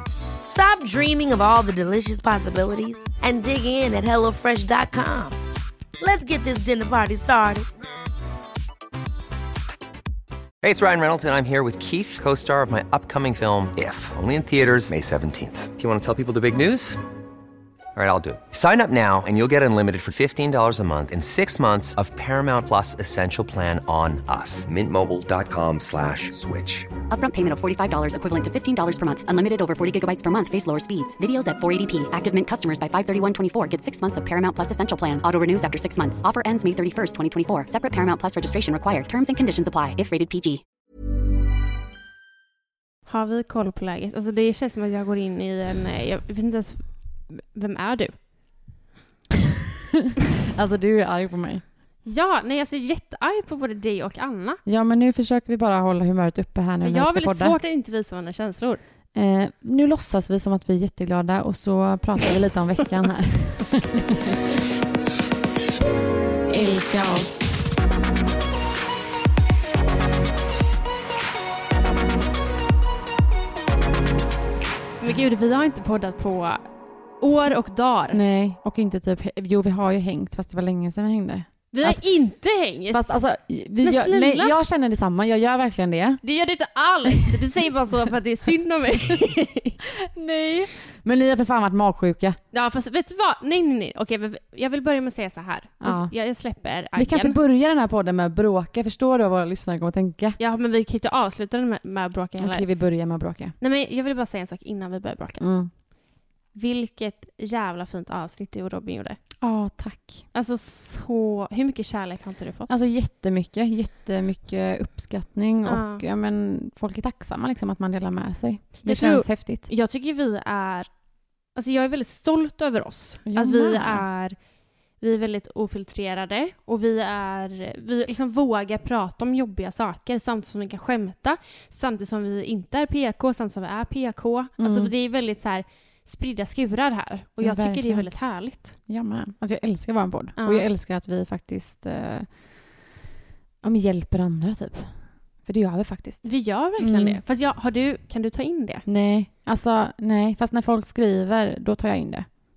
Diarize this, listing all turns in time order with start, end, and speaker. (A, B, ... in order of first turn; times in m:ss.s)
0:00.4-0:05.4 A
0:06.0-0:07.7 A
0:10.6-0:17.0 B
0:17.9-0:26.9 B
0:27.1-0:40.6 C
0:43.0-0:48.2 D
0:50.0-0:51.6 E
0:52.0-0:54.6 D
0:54.6-0:57.6 E
0:56.8-0:58.8 D
0:59.1-1:04.4 E
1:06.5-1:07.3 D
1:06.5-1:07.4 E
1:15.0-1:16.6 D
1:17.2-1:18.2 D
1:18.1-1:22.0 E
1:21.7-1:23.2 D
1:22.9-1:26.2 E
1:23.8-1:24.5 D
1:26.2-1:29.8 D
1:30.2-1:32.4 E
1:32.5-1:37.4 D
1:35.8-1:36.1 E
1:37.0-1:40.4 E
1:40.4-1:42.6 D
1:42.4-1:43.5 E
1:43.6-1:45.4 D
1:45.4-1:45.7 E
1:46.5-1:49.2 D
1:49.4-1:50.2 E
1:50.3-1:52.7 D
1:52.7-1:59.7 E
1:55.6-1:56.0 D
1:58.8-2:00.9 D
2:01.5-2:04.4 D
2:03.2-2:04.0 E
2:05.0-2:18.7 D
2:14.6-2:14.9 E
2:17.4-2:18.1 E
2:18.9-2:22.3 E
2:20.4-2:20.6 D
2:23.6-2:27.2 E
2:26.2-2:28.8 D
2:28.8-2:32.3 E